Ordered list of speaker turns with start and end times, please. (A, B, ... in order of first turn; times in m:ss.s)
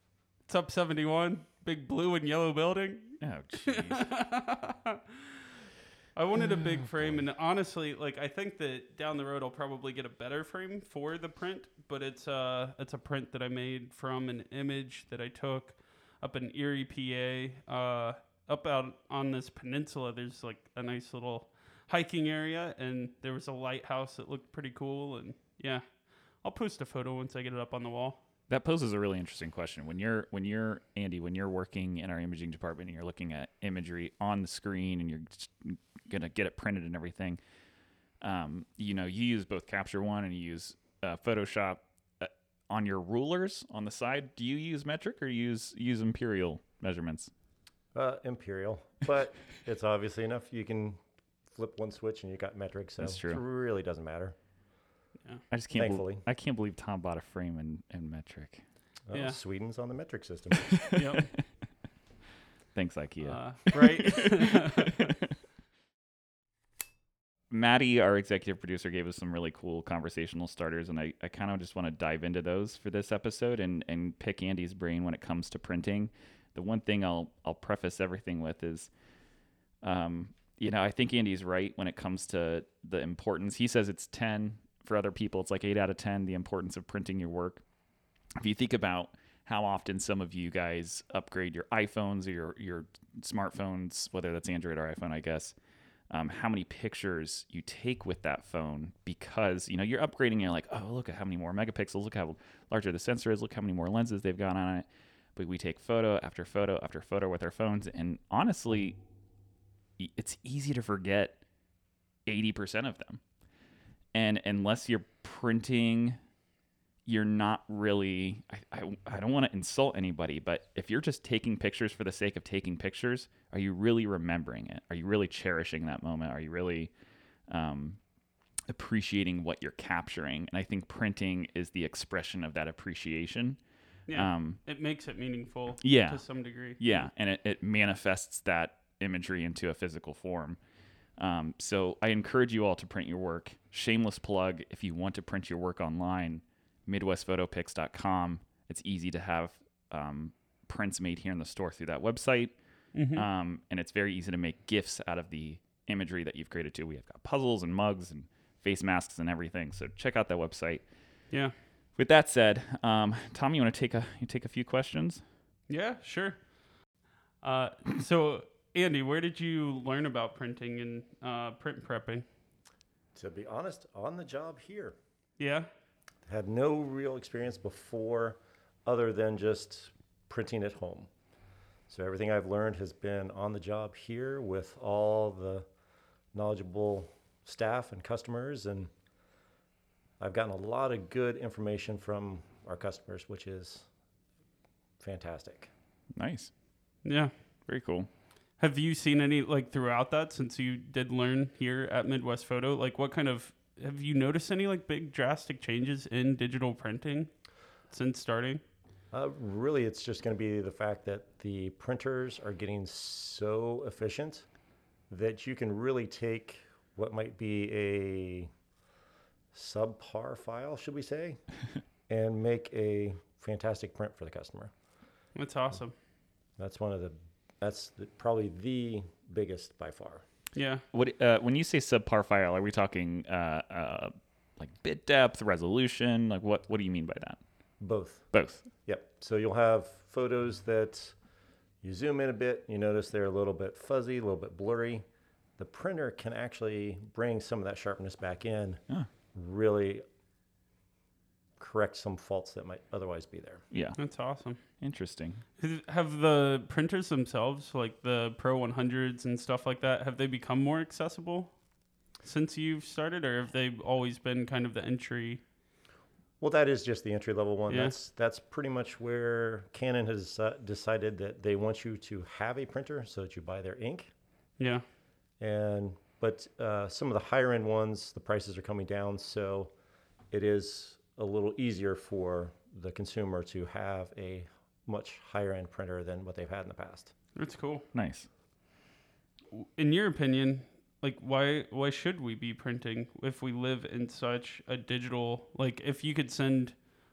0:00.5-0:05.0 A
0:03.2-0:04.1 B
0:06.2-0:25.8 A
0:26.4-0:28.2 A
0:28.5-0:37.4 B
0:38.2-0:47.3 B
0:47.9-0:51.0 C
0:51.5-0:54.4 C
0:53.0-0:53.4 B
0:55.5-0:58.6 B
0:55.8-0:56.2 C
0:59.1-1:00.7 C
1:00.6-1:01.2 B
1:00.9-1:01.3 A
1:02.8-1:05.3 B
1:03.2-1:05.1 A
1:07.5-1:18.9 B
1:19.8-1:27.6 B
1:28.4-1:35.6 B
1:36.1-1:49.0 B
1:50.0-1:51.4 B
1:52.3-1:53.2 B
1:54.1-1:56.2 B
1:57.1-2:06.9 B
2:07.5-2:08.0 B
2:08.7-2:13.6 B
2:14.1-2:16.8 A
2:14.1-2:14.6 B
2:15.8-2:16.2 B
2:16.8-2:20.6 B
2:21.2-2:32.6 B
2:33.0-2:33.2 A
2:33.1-2:40.8 B
2:42.0-2:45.2 B
2:45.7-2:46.4 A
2:47.4-2:52.2 A
2:53.2-2:55.0 C
2:55.4-2:55.7 A
2:56.3-3:01.1 C
3:01.9-3:05.7 C
3:06.3-3:08.9 C
3:10.2-3:13.9 C
3:15.0-3:15.7 C
3:16.2-3:16.5 B
3:17.0-3:17.3 A
3:17.7-3:18.1 B
3:18.6-3:27.3 A
3:27.9-3:28.6 A
3:29.1-3:34.5 C
3:35.1-3:38.5 C
3:39.5-3:41.4 C
3:42.1-3:44.7 C
3:45.4-3:46.0 A
3:46.6-3:50.2 C
3:50.6-3:50.8 A
3:50.9-3:57.4 B
3:57.8-3:58.2 C
3:58.3-3:58.6 B
3:58.9-4:01.2 C
4:01.8-4:05.0 C
4:05.6-4:08.8 C
4:09.4-4:10.0 C
4:11.6-4:13.6 C
4:13.7-4:14.0 B
4:14.0-4:14.6 A
4:14.8-4:15.4 B
4:15.6-4:21.5 A
4:22.2-4:25.4 A
4:26.4-4:34.1 C
4:27.7-4:28.0 A
4:35.4-4:39.7 C
4:40.3-4:47.1 C
4:47.4-4:47.9 A
4:47.9-4:48.3 B
4:49.5-4:56.8 A